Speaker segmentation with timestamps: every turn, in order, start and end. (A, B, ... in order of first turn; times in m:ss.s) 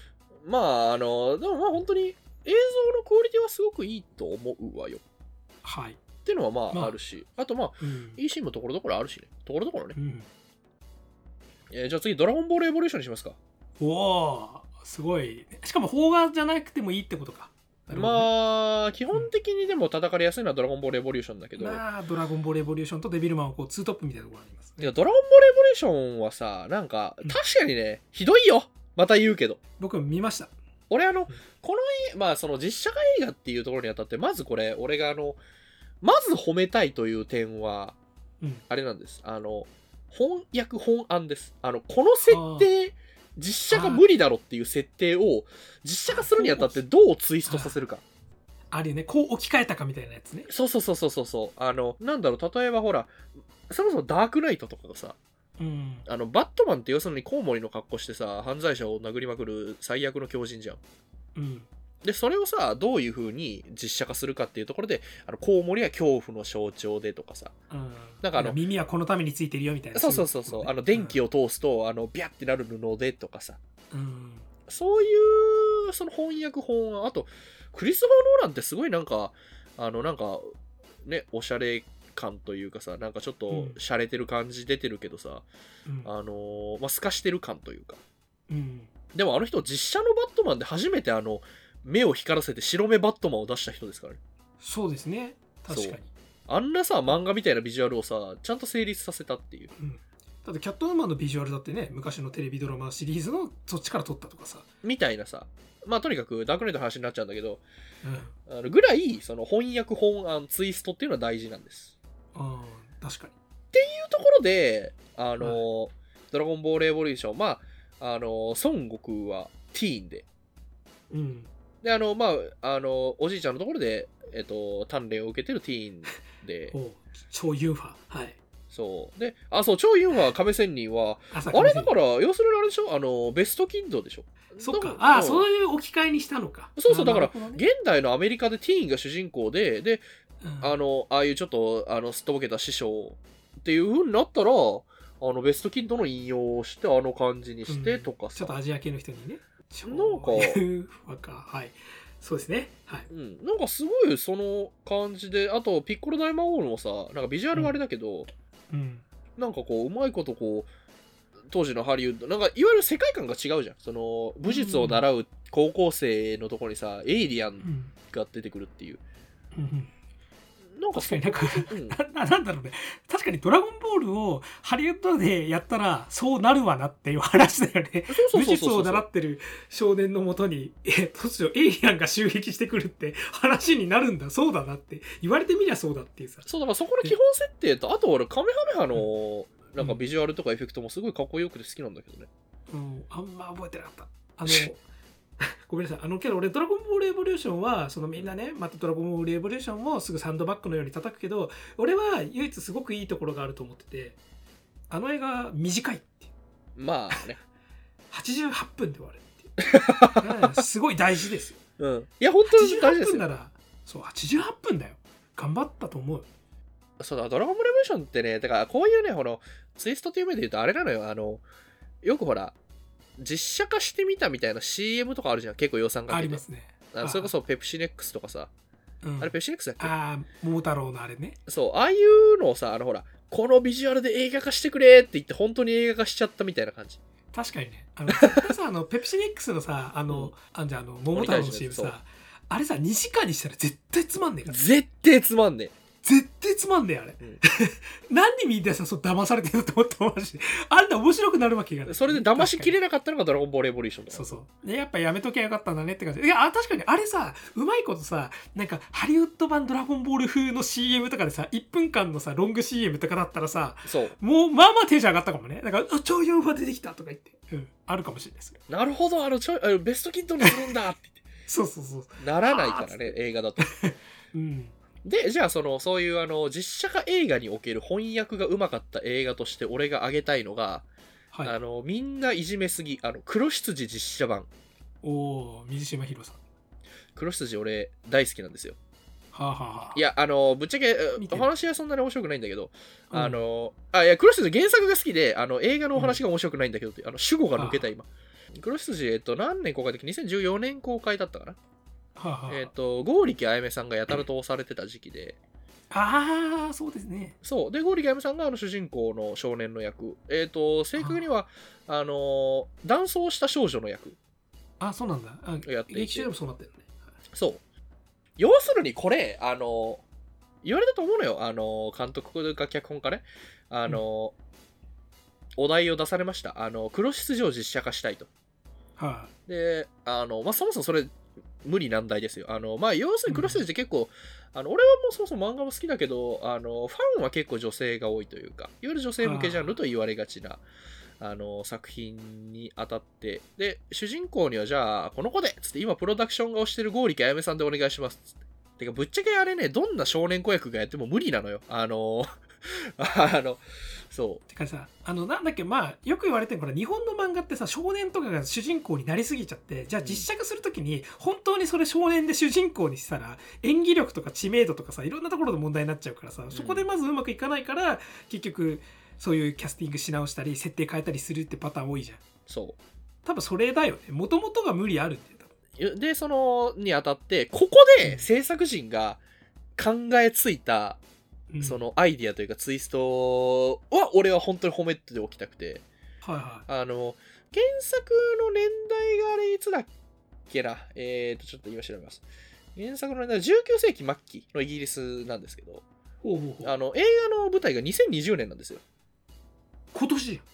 0:00.4-0:05.0 A
0:05.6-0:06.0 B
0:06.2-0:10.0 A
0:06.7-0:07.0 B
0:07.8-0:08.2 B
0:09.9-0:10.3 B
0:11.7-0:13.4 A
0:13.8-0:18.3 B
0:17.9-0:21.8 A
0:21.6-0:24.9 B
0:24.8-0:29.6 A
0:29.8-0:30.5 B
0:30.9-0:35.4 A
0:36.0-0:38.0 A
0:38.7-0:48.0 A
0:42.3-0:42.7 B
0:43.7-0:44.0 B
0:46.1-0:46.8 B
0:47.4-0:47.8 B
0:48.7-0:50.5 B
0:50.5-0:53.2 A
0:53.7-0:55.2 A
0:55.6-0:56.0 B
0:56.1-1:00.8 A
1:01.3-1:01.7 B
1:02.0-1:07.5 A
1:07.7-1:11.2 B
1:08.2-1:08.6 A
1:09.9-1:13.6 A
1:13.9-1:14.5 B
1:14.7-1:20.5 A
1:21.0-1:25.4 A
1:23.5-1:23.8 B
1:26.0-1:28.0 A
1:28.5-1:28.9 B
1:29.1-1:34.2 A
1:34.6-1:36.1 B
1:35.7-1:39.7 A
1:39.7-1:44.6 B
1:44.8-1:47.6 A
1:48.0-1:48.3 B
1:48.5-1:51.9 A
1:52.3-1:53.3 B
1:53.7-2:00.2 A
2:01.1-2:01.5 B
2:01.8-2:06.7 A
2:06.7-2:08.4 B
2:08.7-2:15.4 A
2:11.3-2:11.9 B
2:14.6-2:17.6 B
2:16.8-2:20.0 A
2:20.4-2:20.8 B
2:20.6-2:28.5 A
2:27.7-2:33.1 B
2:29.8-2:30.6 A
2:33.1-2:38.3 A
2:38.7-2:39.0 B
2:39.4-2:40.7 A
2:41.5-2:49.0 A
2:44.4-2:45.0 B
2:47.6-2:47.9 B
2:49.5-2:49.9 B
2:50.7-2:52.0 A
2:50.9-3:06.4 B
2:58.1-2:59.0 A
3:06.4-3:12.3 A
3:12.7-3:14.8 B
3:15.4-3:24.2 B
3:24.9-3:26.3 B
3:26.8-3:27.4 A
3:28.1-3:29.5 B
3:29.6-3:30.6 A
3:30.2-3:31.6 B
3:31.8-3:33.2 A
3:32.4-3:36.3 B
3:37.0-3:41.4 A
3:42.0-3:42.6 A
3:43.2-3:48.5 A
3:46.1-3:47.3 B
3:49.0-3:51.4 B
3:49.2-3:49.9 A
3:51.5-3:57.0 A
3:57.3-4:04.6 B
3:58.1-3:58.4 A
4:01.1-4:01.9 A
4:04.5-4:05.7 A
4:06.0-4:12.8 B
4:11.9-4:14.4 A
4:14.1-4:28.6 B
4:23.8-4:24.2 A
4:28.7-4:31.2 A
4:31.5-4:34.7 B
4:32.2-4:33.7 A
4:35.0-4:40.8 A
4:41.4-4:44.5 A
4:45.0-4:46.4 B
4:47.2-4:48.8 A
4:49.3-4:50.0 B
4:49.9-5:01.6 A
4:51.2-4:51.5 B
4:53.1-4:53.4 B
4:55.9-4:56.2 B
4:57.6-4:57.9 B
5:02.2-5:02.7 B
5:02.5-5:05.4 A
5:05.9-5:07.4 B
5:07.4-5:14.2 A
5:11.0-5:11.2 B
5:14.8-5:17.0 B
5:15.6-5:16.3 A
5:17.3-5:17.6 A
5:18.4-5:20.0 A
5:20.6-5:24.3 A
5:25.6-5:28.3 A
5:29.0-5:29.3 B
5:29.5-5:40.6 A
5:33.3-5:33.6 B
5:39.2-5:39.8 B
5:41.2-5:48.2 A
5:48.8-5:54.4 A
5:54.5-6:12.2 B
6:00.0-6:00.3 A
6:06.5-6:06.8 A
6:12.5-6:12.8 A
6:13.2-6:15.5 B
6:15.8-6:19.2 A
6:19.8-6:21.0 A
6:21.5-6:21.8 B
6:21.6-6:25.8 A
6:26.2-6:26.6 B
6:26.7-6:29.9 A
6:30.5-6:32.2 A
6:32.7-6:35.8 A
6:36.2-6:36.7 B
6:36.6-6:38.8 A
6:39.9-6:40.4 B